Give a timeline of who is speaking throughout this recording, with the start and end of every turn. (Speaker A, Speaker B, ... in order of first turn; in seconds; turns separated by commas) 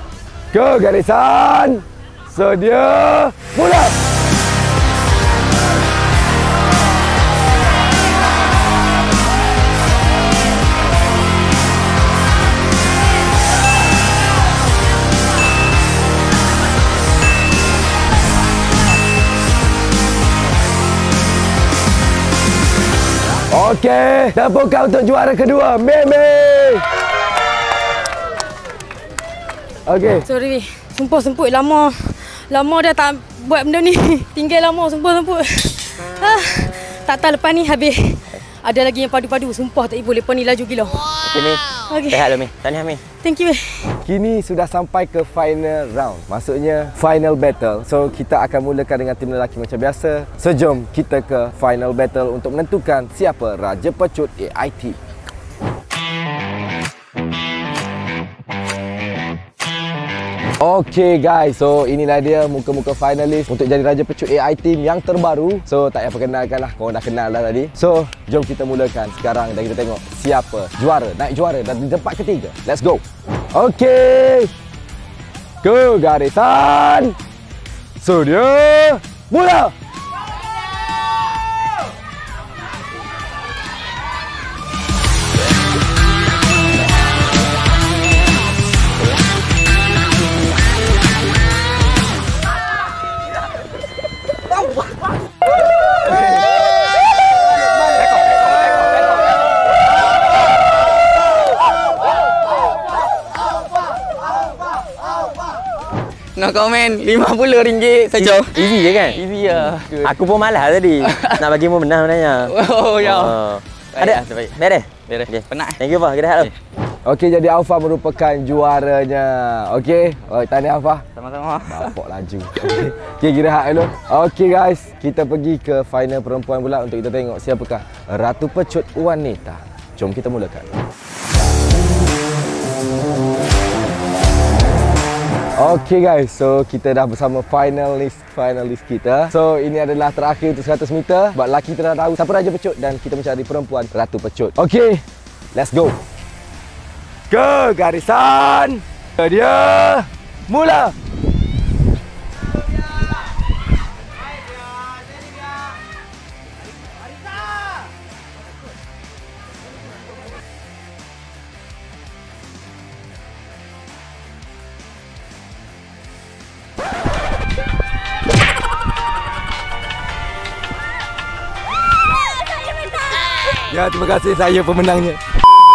Speaker A: 0.5-3.9, Speaker A: 23.5-26.8, Speaker A: 29.9-30.3, Speaker B: 30.3-41.1, Speaker C: 41.2-43.0, Speaker B: 41.9-42.3, Speaker B: 43.2-43.9, Speaker A: 44.0-55.0, Speaker A: 60.6-74.5, Speaker A: 75.6-77.2, Speaker A: 78.0-79.7, Speaker D: 106.3-108.5, Speaker C: 108.2-116.5, Speaker D: 109.1-110.1, Speaker D: 111.1-111.4, Speaker D: 112.5-113.4, Speaker D: 113.9-115.8, Speaker A: 117.0-121.0, Speaker D: 121.2-121.9, Speaker A: 121.6-130.7, Speaker A: 135.6-145.0, Speaker A: 145.5-146.0, Speaker A: 147.3-150.9, Speaker A: 173.6-175.2